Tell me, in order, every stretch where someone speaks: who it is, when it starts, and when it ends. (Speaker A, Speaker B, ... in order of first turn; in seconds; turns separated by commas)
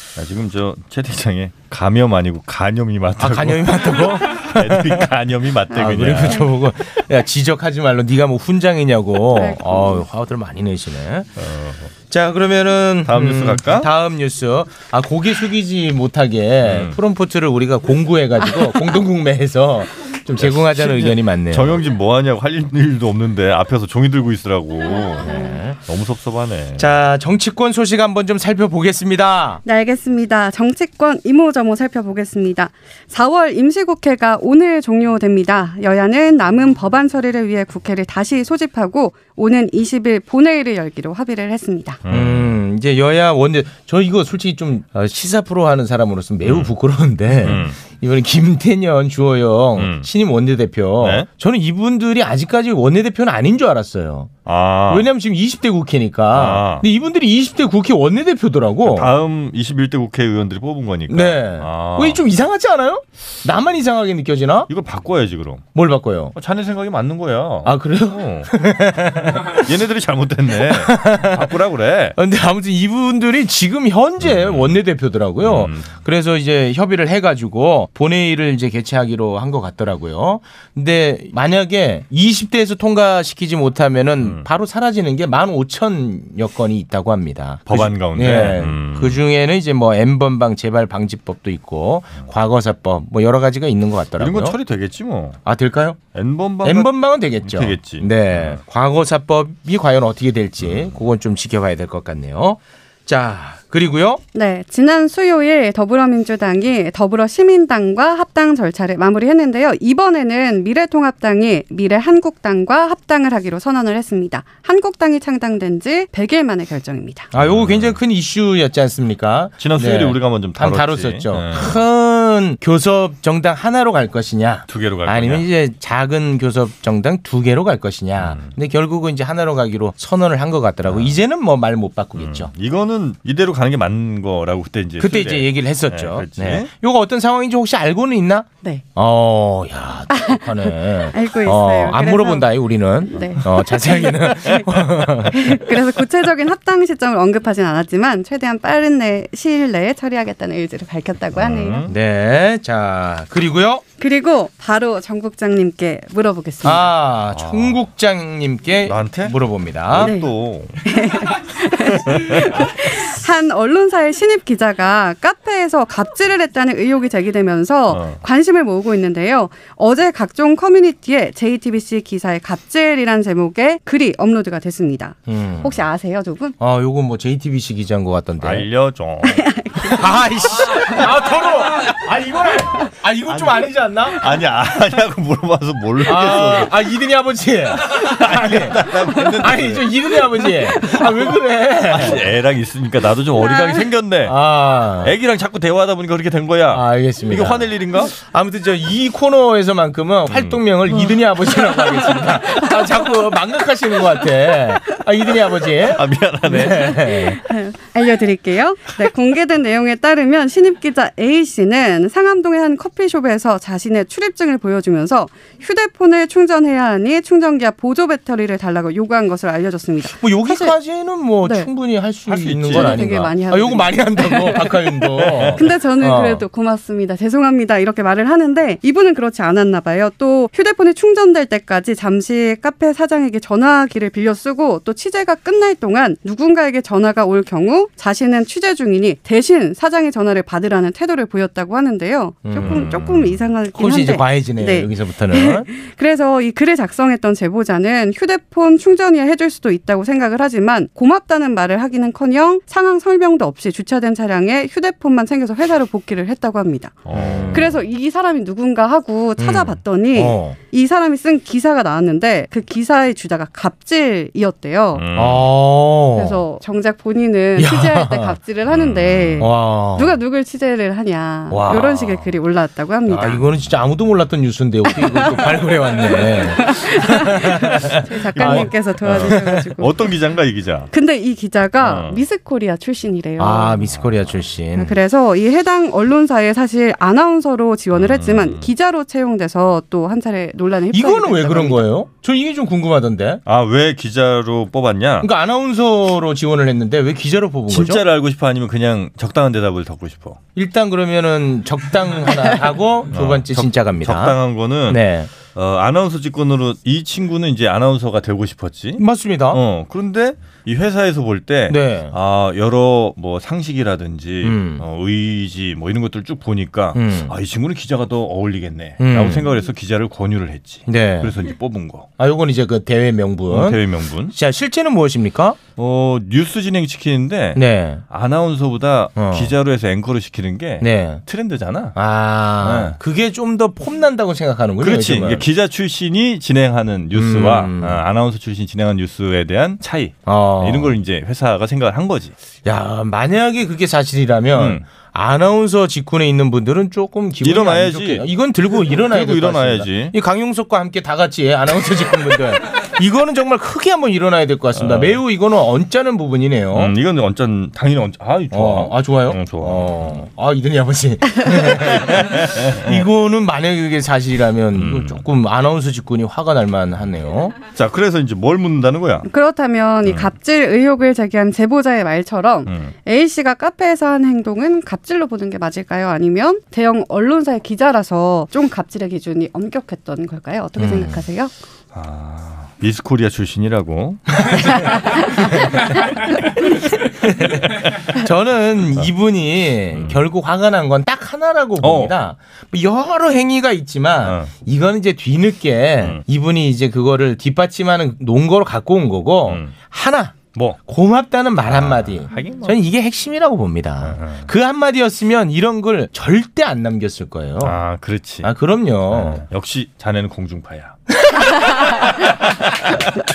Speaker A: 0.2-6.5, Speaker B: 3.2-5.1, Speaker B: 5.7-11.3, Speaker C: 9.4-10.0, Speaker A: 11.4-11.9, Speaker B: 12.1-21.8, Speaker A: 13.1-13.9, Speaker A: 16.6-17.0, Speaker A: 20.4-26.9, Speaker B: 25.2-25.8, Speaker B: 26.8-29.6, Speaker C: 29.6-42.0, Speaker A: 42.0-42.6, Speaker B: 42.1-54.3, Speaker A: 46.5-46.7, Speaker A: 47.4-47.8, Speaker A: 49.8-50.1, Speaker A: 51.0-51.3, Speaker A: 54.5-55.1, Speaker B: 54.9-59.1, Speaker A: 56.3-56.9, Speaker A: 58.9-62.2, Speaker B: 61.1-64.7, Speaker A: 64.7-65.7, Speaker B: 65.8-66.3, Speaker A: 66.3-68.5, Speaker B: 67.6-69.7, Speaker A: 69.5-72.2, Speaker B: 70.7-71.5, Speaker B: 72.2-94.6, Speaker A: 74.2-74.8, Speaker A: 75.4-75.9, Speaker A: 87.7-89.2, Speaker A: 94.2-95.4, Speaker B: 95.5-96.0, Speaker A: 96.1-98.6, Speaker B: 96.6-104.2, Speaker A: 100.6-100.9, Speaker C: 104.3-117.3, Speaker B: 117.3-132.5, Speaker A: 117.3-118.0, Speaker A: 119.6-121.8, Speaker A: 124.7-125.5, Speaker A: 128.2-128.5, Speaker A: 130.9-131.1, Speaker A: 132.2-136.7, Speaker B: 135.0-145.6, Speaker C: 140.1-142.5, Speaker C: 143.1-144.7, Speaker C: 145.3-151.9, Speaker A: 151.4-151.9, Speaker B: 151.9-153.8, Speaker C: 154.0-156.9, Speaker B: 156.6-160.1, Speaker A: 157.3-157.8, Speaker A: 158.8-159.3, Speaker A: 159.9-160.8, Speaker C: 160.0-160.3, Speaker C: 160.8-176.6, Speaker A: 162.1-162.7, Speaker A: 167.9-168.2, Speaker B: 175.3-175.8, Speaker B: 176.6-178.7, Speaker A: 178.4-179.6, Speaker C: 179.2-180.1, Speaker B: 179.8-184.2, Speaker A: 183.3-186.8, Speaker B: 186.0-192.3, Speaker A: 187.9-189.9, Speaker A: 191.9-194.4, Speaker B: 194.2-195.1, Speaker A: 195.0-198.2, Speaker B: 196.7-207.4, Speaker A: 200.3-200.6, Speaker A: 205.9-207.1, Speaker C: 207.4-220.8, Speaker B: 220.0-226.4, Speaker C: 221.4-221.7, Speaker A: 222.3-223.0, Speaker C: 222.7-257.0, Speaker B: 242.4-242.9, Speaker A: 242.6-243.5, Speaker B: 243.8-245.7, Speaker A: 257.1-257.7, Speaker B: 257.1-257.8, Speaker C: 257.5-265.1, Speaker B: 259.4-260.6, Speaker A: 264.9-265.5, Speaker B: 265.1-266.4, Speaker C: 266.2-273.4, Speaker B: 267.6-268.4, Speaker A: 268.7-269.5, Speaker B: 269.4-270.2, Speaker B: 271.5-272.0, Speaker A: 271.7-272.2, Speaker B: 273.1-279.6, Speaker C: 275.0-279.9, Speaker A: 278.4-280.9, Speaker C: 280.9-283.8, Speaker A: 281.8-282.2, Speaker B: 283.4-285.0, Speaker C: 284.8-291.8, Speaker A: 287.9-288.7, Speaker B: 290.9-293.4, Speaker A: 293.5-295.3, Speaker B: 295.2-298.0, Speaker A: 297.7-300.4, Speaker B: 300.6-304.4, Speaker A: 303.1-322.1, Speaker B: 304.9-305.3, Speaker B: 309.0-309.6, Speaker B: 311.7-312.1, Speaker B: 314.4-314.9, Speaker B: 316.9-317.4, Speaker B: 319.0-319.5, Speaker B: 320.9-321.3, Speaker B: 322.2-325.6, Speaker A: 323.5-324.3, Speaker A: 325.8-332.0, Speaker B: 327.6-328.0, Speaker B: 329.2-329.5, Speaker B: 330.8-331.2, Speaker B: 331.9-335.5, Speaker A: 332.6-333.0, Speaker A: 334.8-342.3, Speaker B: 337.1-338.0, Speaker B: 340.3-341.0, Speaker B: 342.6-356.9, Speaker A: 344.6-344.8, Speaker A: 347.4-348.2, Speaker A: 348.9-350.1, Speaker A: 354.8-355.2, Speaker A: 356.7-360.2, Speaker B: 358.5-367.6, Speaker A: 361.7-363.0, Speaker A: 364.8-365.2, Speaker A: 367.7-369.3, Speaker C: 369.3-381.5, Speaker A: 370.1-370.3, Speaker A: 372.7-372.9, Speaker B: 380.8-381.2, Speaker A: 381.9-384.7, Speaker B: 387.2-407.8, Speaker A: 389.9-390.2, Speaker A: 391.8-392.1, Speaker A: 394.2-394.5, Speaker A: 399.5-399.7, Speaker A: 401.7-402.8, Speaker A: 404.0-404.5, Speaker A: 407.6-408.5, Speaker B: 408.4-409.4, Speaker A: 409.1-411.0, Speaker B: 411.2-412.3, Speaker A: 412.1-413.1